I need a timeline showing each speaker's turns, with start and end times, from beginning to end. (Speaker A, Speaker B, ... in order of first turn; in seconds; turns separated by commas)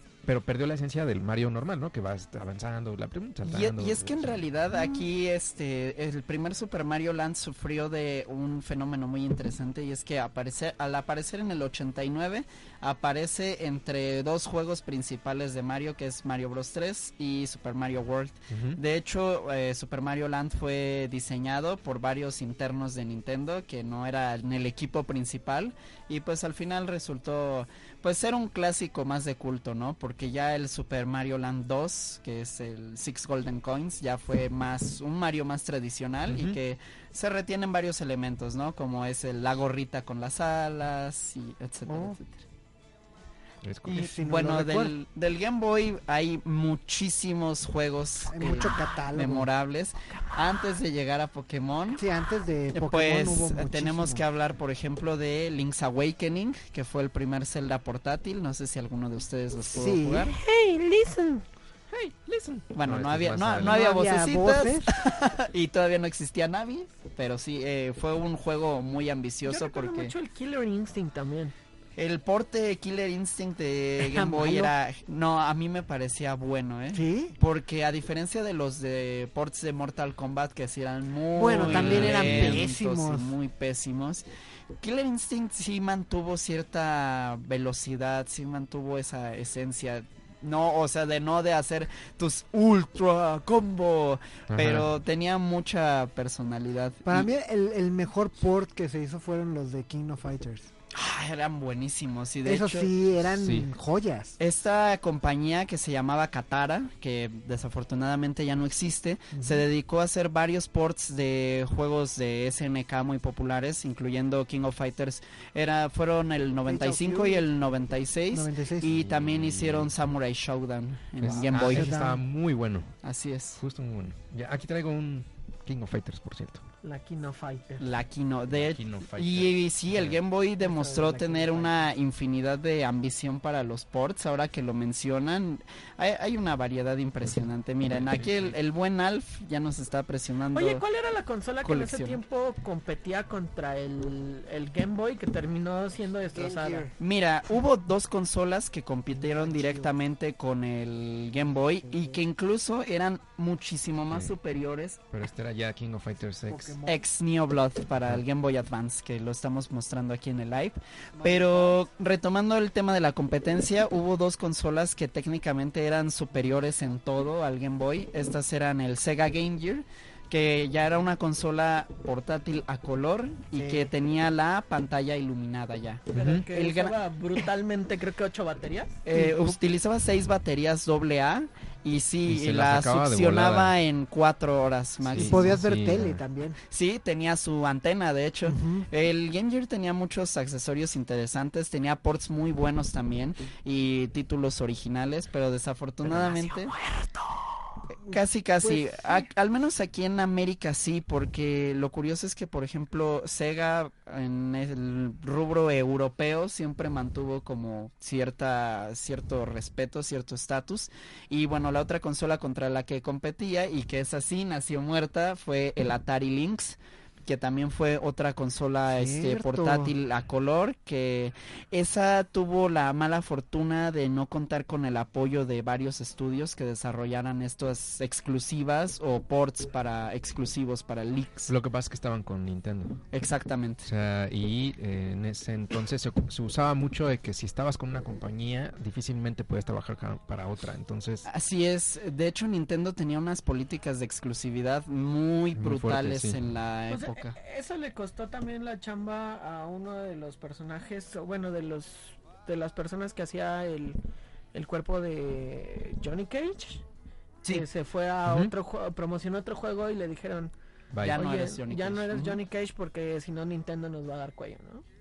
Speaker A: 0.2-4.4, Speaker B: 3.4-42.4, Speaker A: 18.5-18.8, Speaker A: 36.3-36.6, Speaker C: 41.9-42.2, Speaker A: 43.6-44.0, Speaker C: 43.9-45.0, Speaker B: 43.9-52.0, Speaker C: 48.2-49.5, Speaker C: 52.0-54.2, Speaker B: 52.7-60.3, Speaker C: 59.7-60.3, Speaker D: 60.3-61.5, Speaker A: 61.9-63.8, Speaker B: 62.7-70.1, Speaker C: 63.6-64.9, Speaker D: 69.5-71.5, Speaker B: 72.0-84.3, Speaker C: 74.0-74.8, Speaker C: 76.9-77.4, Speaker C: 81.3-83.3, Speaker A: 81.6-82.7, Speaker B: 84.8-97.3, Speaker A: 94.5-94.9, Speaker C: 97.0-100.7, Speaker B: 100.9-102.9, Speaker C: 102.4-104.4, Speaker A: 103.3-103.7, Speaker B: 104.4-121.9, Speaker C: 109.3-109.7, Speaker C: 116.6-117.5, Speaker C: 118.3-119.0, Speaker A: 119.0-119.9, Speaker A: 121.2-123.0, Speaker C: 121.3-122.2, Speaker B: 123.0-123.6, Speaker A: 123.6-126.6, Speaker D: 126.8-127.8, Speaker B: 127.8-140.8, Speaker A: 128.5-130.2, Speaker D: 130.6-131.8, Speaker A: 137.9-138.6, Speaker D: 140.5-146.9, Speaker B: 141.6-142.2, Speaker C: 146.3-146.9, Speaker B: 147.0-155.0, Speaker C: 149.1-149.9, Speaker C: 151.8-152.2, Speaker A: 155.1-156.8, Speaker C: 156.5-157.1, Speaker B: 156.9-177.0, Speaker C: 161.1-161.8, Speaker C: 173.6-173.9, Speaker A: 176.1-176.5, Speaker D: 176.1-179.0, Speaker B: 179.1-185.6, Speaker C: 179.1-179.5, Speaker A: 182.3-183.8, Speaker A: 185.1-186.2, Speaker C: 185.2-186.6, Speaker B: 186.7-196.8, Speaker C: 188.4-188.9, Speaker D: 196.2-197.6, Speaker C: 198.0-199.3, Speaker B: 198.1-231.5, Speaker C: 218.9-219.9, Speaker A: 231.5-233.0, Speaker B: 233.1-233.9, Speaker A: 233.8-241.3, Speaker B: 241.3-247.3, Speaker A: 245.6-246.4, Speaker D: 246.9-254.0, Speaker D: 254.5-256.8, Speaker D: 257.5-260.5, Speaker A: 258.3-258.5, Speaker A: 260.9-261.2, Speaker B: 261.0-262.4, Speaker D: 261.1-264.8